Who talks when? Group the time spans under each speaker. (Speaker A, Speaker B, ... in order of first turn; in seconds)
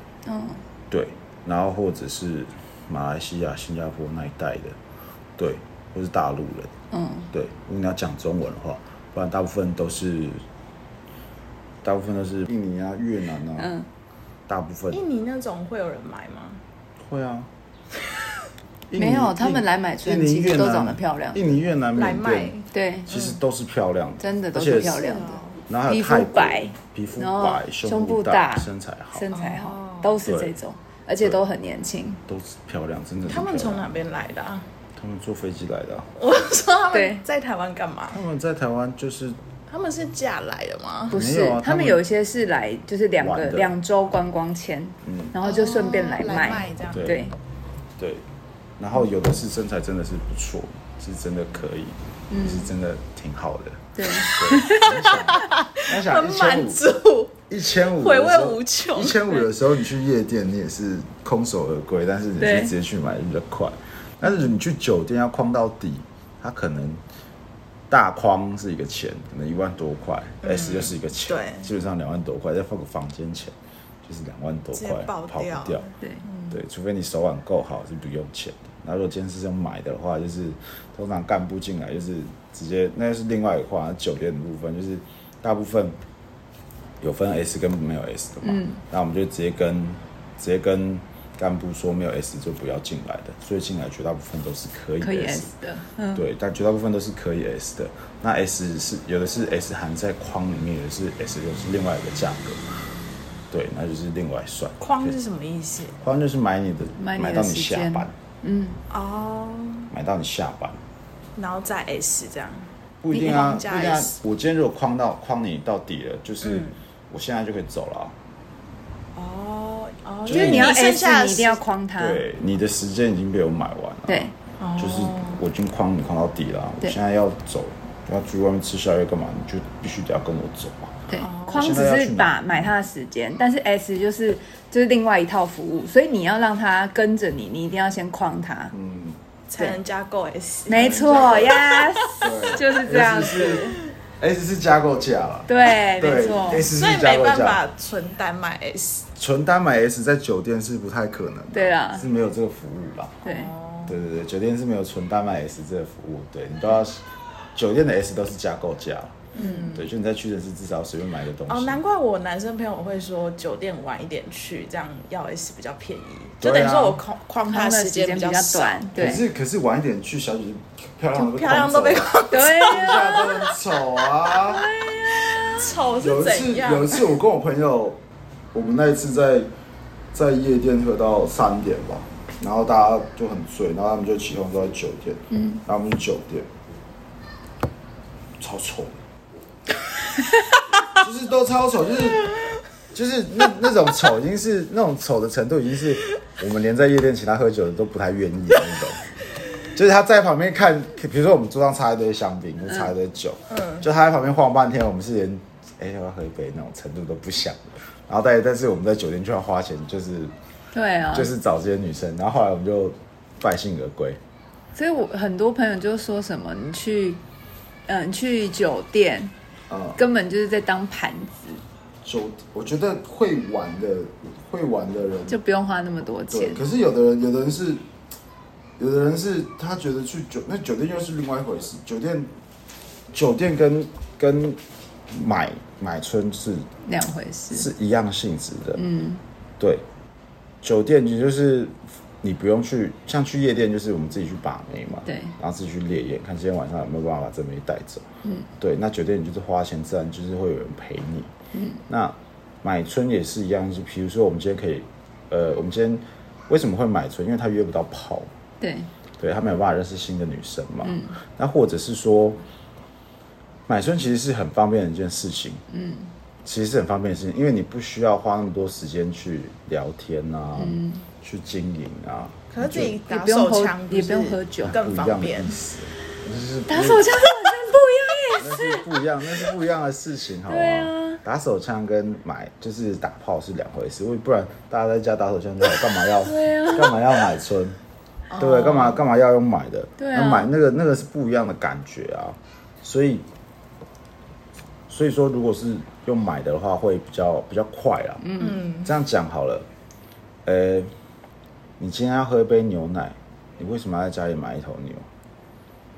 Speaker A: 0.2-0.6, 6.9-7.3, 13.6-13.9, 18.9-21.4, 22.7-23.1, 24.2-32.2, 36.9-37.2, 41.1-47.3, 52.3-52.7, 54.0-54.9, 62.4-62.7, 88.4-88.8, 95.0-96.2, 107.0-108.8, 120.3-122.2, 124.1-124.3, 131.1-138.7, 140.7-143.8, 145.5-146.7, 151.5-152.0, 153.2-153.5, 159.4-159.7, 167.5-169.2, 172.3-173.3, 174.4-175.6, 185.3-185.6, 210.7-211.3, 214.7-217.2, 217.9-219.3, 219.9-221.6, 225.3-226.6, 236.8-237.7, 238.8-239.2, 245.1-245.3, 251.5-251.8, 258.6-258.9, 260.8-261.2, 265.7-266.1, 270.6-271.0, 272.7-274.8, 276.7-278.9, 280.5-281.2, 286.2-287.1, 290.0-290.5, 298.2-298.6
Speaker B: 0.9-4.8, 5.4-6.7, 7.3-10.4, 11.8-13.7, 14.5-15.0, 17.0-17.5, 18.9-22.5, 23.1-25.1, 25.7-29.3, 30.2-30.5, 32.3-34.0, 35.0-36.1, 38.1-39.4, 41.1-42.0, 43.2-43.8, 45.0-45.3, 46.9-47.2, 48.0-48.2, 48.8-56.8, 57.5-67.0, 67.9-75.8, 76.5-86.0, 87.0-95.5, 96.1-102.6, 103.5-105.2, 106.0-108.1, 109.9-110.8, 113.0-118.2, 120.2-120.8, 122.0-132.7, 138.7-139.2, 142.2-147.6, 149.2-153.2, 153.9-161.8, 166.4-167.0, 168.9-174.7, 176.0-178.0, 178.5-179.5, 180.1-186.5, 188.4-189.0, 190.9-192.3, 192.9-199.1, 199.7-210.3, 211.1-214.2, 219.7-220.0, 222.0-225.4, 226.3-227.8, 228.8-232.3, 233.1-236.7, 237.5-238.8, 239.6-239.8, 240.6-251.3, 251.9-258.3, 259.2-262.4, 263.7-265.6, 266.4-273.0, 274.6-277.1, 278.4-287.8, 288.3-293.2, 294.9-298.3, 298.8-299.7, 300.4-300.9, 301.8-305.1
Speaker C: 14.9-16.6, 21.9-23.2, 24.8-25.6, 29.3-30.2, 33.3-34.6, 36.1-38.2, 39.7-41.2, 45.4-47.1, 54.8-59.4, 70.4-71.7, 74.7-76.6, 104.8-106.0, 108.9-109.9, 111.3-114.1, 116.4-116.8, 119.2-121.6, 124.6-125.4, 131.2-131.8, 139.5-142.5, 143.0-143.9, 146.4-149.1, 153.2-154.0, 159.3-159.9, 161.5-168.9, 171.1-177.1, 203.5-203.8, 272.5-275.6, 288.3-289.0, 298.4-298.9